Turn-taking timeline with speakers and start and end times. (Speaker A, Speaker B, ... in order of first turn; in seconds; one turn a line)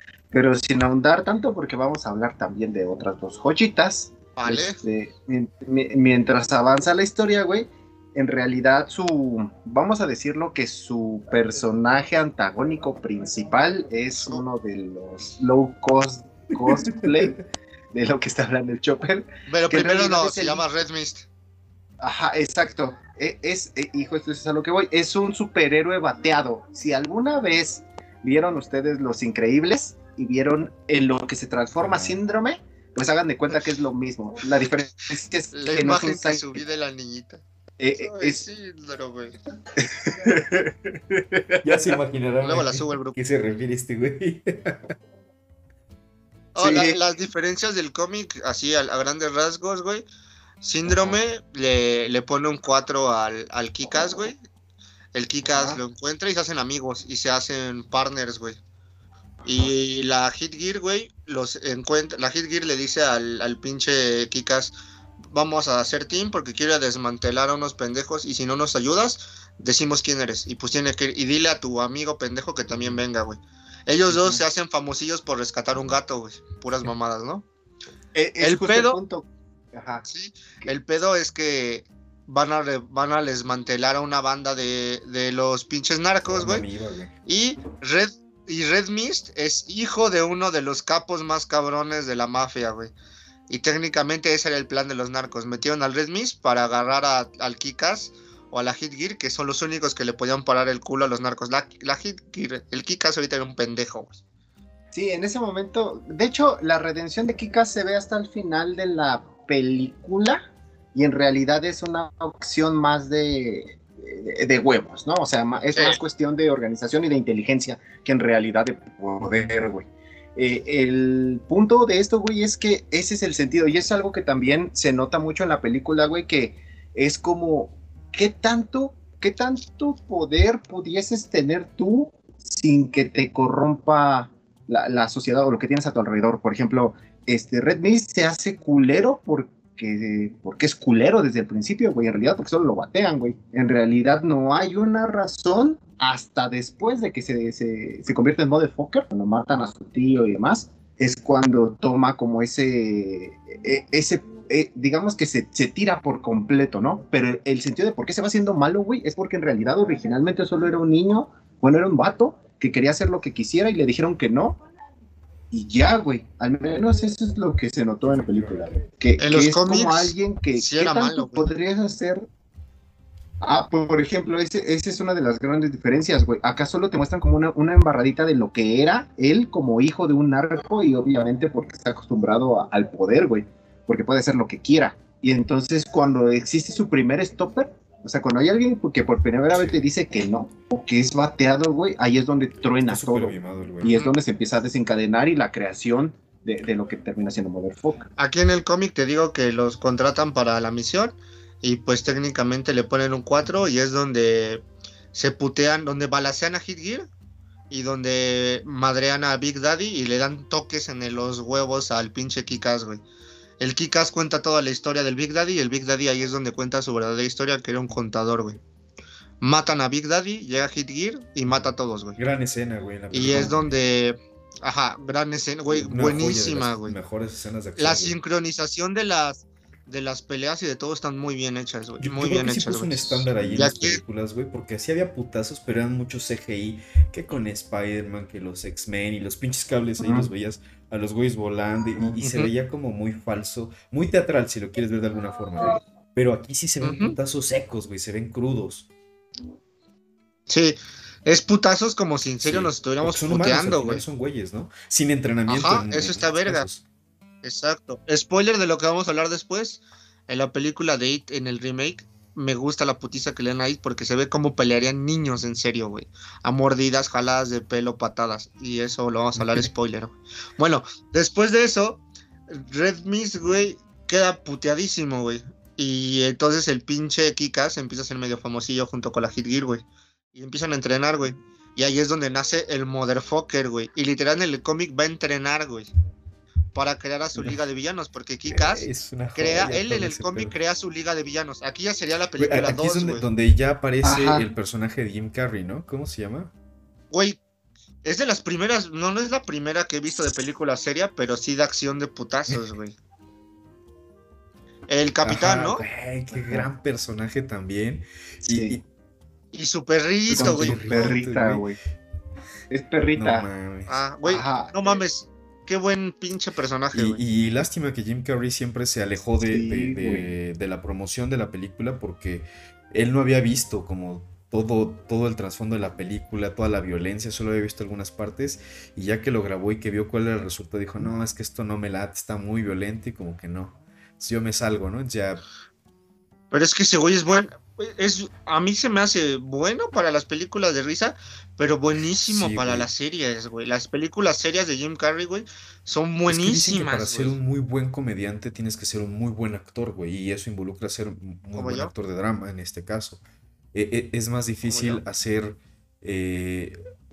Speaker A: 0.3-20.6
Speaker B: 4.3-4.8
Speaker B: 14.2-14.4
Speaker C: 16.6-17.3
Speaker B: 19.5-21.2
Speaker A: 22.0-36.6
Speaker C: 31.8-32.2
Speaker B: 35.5-37.4
Speaker A: 37.8-38.4
Speaker B: 38.0-39.4
Speaker A: 39.8-41.6
Speaker C: 41.6-44.9
Speaker B: 42.4-43.1
Speaker B: 46.5-50.0
Speaker A: 46.6-47.0
Speaker B: 50.6-54.4
Speaker C: 50.9-51.2
Speaker B: 55.1-58.6
Speaker A: 55.4-55.8
Speaker A: 59.4-59.7
Speaker B: 59.4-64.7
Speaker B: 65.3-77.4
Speaker C: 72.8-73.0
Speaker A: 74.1-74.4
Speaker A: 78.1-80.0
Speaker B: 78.4-79.0
Speaker B: 80.1-86.7
Speaker C: 86.2-87.1
Speaker B: 87.2-92.9
Speaker B: 93.5-104.2
Speaker A: 104.9-110.4
Speaker A: 110.9-164.6
Speaker A: 165.5-172.3
Speaker C: 168.1-168.7
Speaker B: 169.2-171.5
Speaker A: 173.4-198.1
Speaker C: 189.5-189.8
Speaker C: 192.8-193.9
Speaker B: 198.2-207.1
Speaker B: 207.7-213.0
Speaker B: 213.6-218.6
Speaker B: 219.4-222.2
Speaker C: 221.5-223.7
Speaker B: 223.1-227.0
Speaker C: 225.7-228.1
Speaker B: 227.8-234.0
Speaker C: 232.0-248.9
Speaker A: 240.0-240.3
Speaker B: 242.2-242.5
Speaker B: 246.8-247.2
Speaker B: 250.5-254.0
Speaker C: 252.4-256.8
Speaker B: 255.5-256.6
Speaker B: 257.4-285.9
Speaker C: 269.4-269.7
Speaker B: 286.7-293.2
Speaker C: 288.5-290.6
Speaker C: 292.4-296.5
Speaker A: 294.0-294.4
Speaker B: 297.1-297.4
Speaker B: 298.0-302.9
Speaker B: 304.9-305.8
Speaker C: 305.2-308.8
Speaker A: 306.3-306.7
Speaker A: 308.5-308.8
Speaker B: 309.5-311.1
Speaker C: 310.3-311.6
Speaker A: 310.3-311.8
Speaker A: 312.7-313.4
Speaker C: 313.1-314.0
Speaker B: 313.9-317.2
Speaker A: 314.2-314.9
Speaker C: 316.9-335.4
Speaker A: 319.4-320.3
Speaker B: 336.5-347.4
Speaker C: 342.2-342.9
Speaker C: 346.3-353.2
Speaker B: 351.5-351.9
Speaker C: 353.7-356.8
Speaker B: 354.7-355.0